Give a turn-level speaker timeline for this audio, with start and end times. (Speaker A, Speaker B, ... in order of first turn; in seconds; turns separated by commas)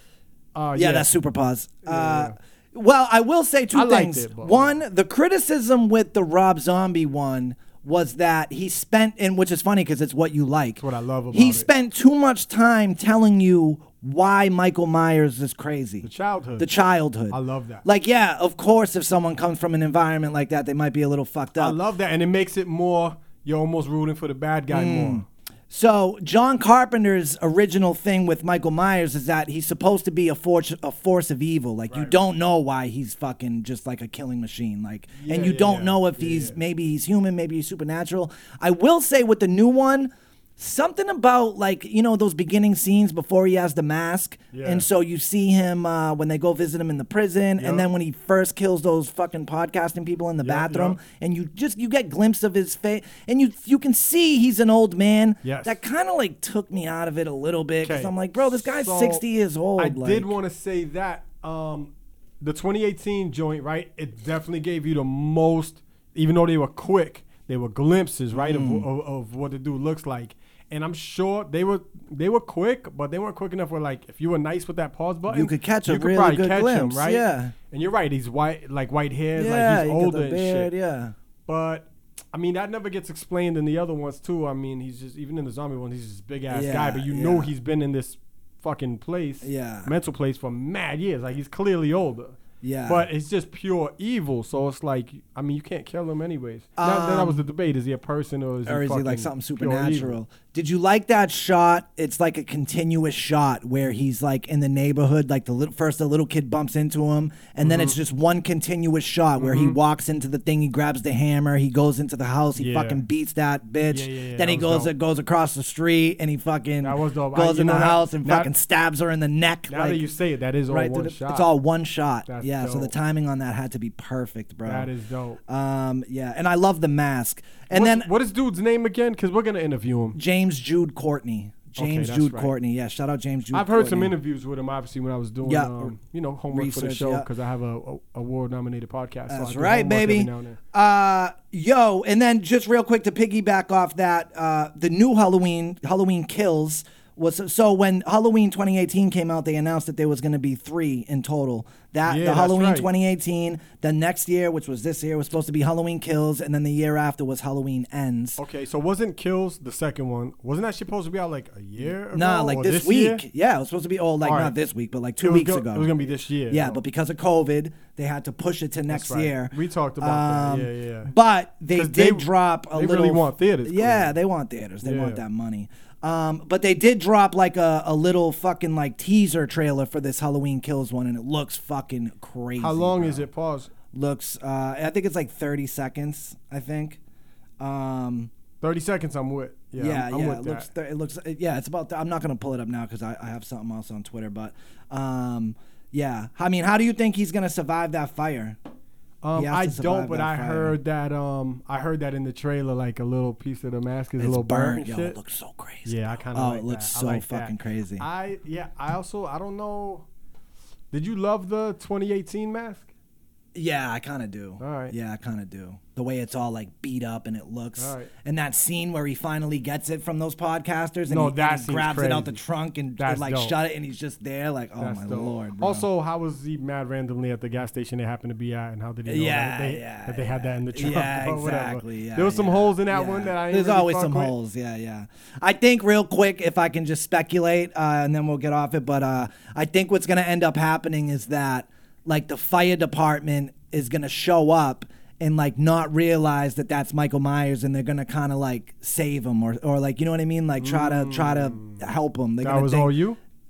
Speaker A: 0.6-1.1, Speaker B: 0.8-21.8, Speaker A: 1.8-2.4, Speaker A: 3.7-4.8, Speaker A: 10.8-11.7, Speaker A: 16.0-16.7, Speaker A: 17.3-17.8, Speaker A: 21.6-25.2, Speaker B: 24.7-60.3, Speaker A: 31.9-32.2, Speaker A: 35.1-36.6, Speaker A: 44.5-44.9, Speaker A: 47.6-47.9, Speaker A: 50.4-51.0, Speaker A: 55.4-55.8, Speaker A: 57.8-59.2, Speaker A: 59.8-80.7, Speaker B: 68.3-68.9, Speaker B: 75.3-77.5, Speaker B: 79.3-81.2, Speaker A: 81.5-100.2, Speaker B: 86.5-87.5, Speaker B: 89.4-89.9, Speaker B: 92.6-93.0, Speaker B: 96.8-97.4, Speaker B: 98.7-120.0, Speaker A: 107.6-108.0, Speaker A: 109.4-109.8, Speaker A: 112.6-113.0, Speaker A: 113.9-114.9, Speaker A: 116.8-118.5, Speaker A: 119.7-121.5, Speaker B: 120.7-124.9, Speaker A: 122.3-122.9, Speaker A: 124.7-125.4, Speaker B: 125.5-128.1, Speaker A: 127.7-130.2, Speaker B: 130.2-134.1, Speaker A: 131.8-132.5, Speaker A: 133.5-140.6, Speaker B: 135.4-135.9, Speaker B: 136.5-137.3, Speaker B: 139.3-158.4, Speaker A: 152.1-152.9, Speaker A: 158.4-163.2, Speaker B: 162.1-165.9, Speaker A: 164.2-164.6, Speaker A: 165.2-166.8, Speaker B: 166.5-183.2, Speaker A: 168.9-171.1, Speaker A: 171.7-174.2, Speaker A: 174.8-175.2, Speaker A: 182.6-183.7, Speaker B: 183.9-187.0, Speaker B: 187.6-188.3, Speaker A: 188.6-190.7, Speaker B: 189.8-198.6, Speaker A: 199.2-205.2, Speaker B: 199.3-200.8, Speaker B: 204.2-208.1, Speaker A: 205.8-210.1, Speaker A: 210.9-212.9, Speaker B: 213.5-225.9, Speaker A: 214.6-214.9, Speaker A: 217.8-218.1, Speaker A: 221.1-222.4, Speaker A: 223.0-223.6, Speaker A: 224.8-234.3, Speaker B: 229.1-252.9, Speaker A: 250.6-251.9, Speaker A: 252.4-253.2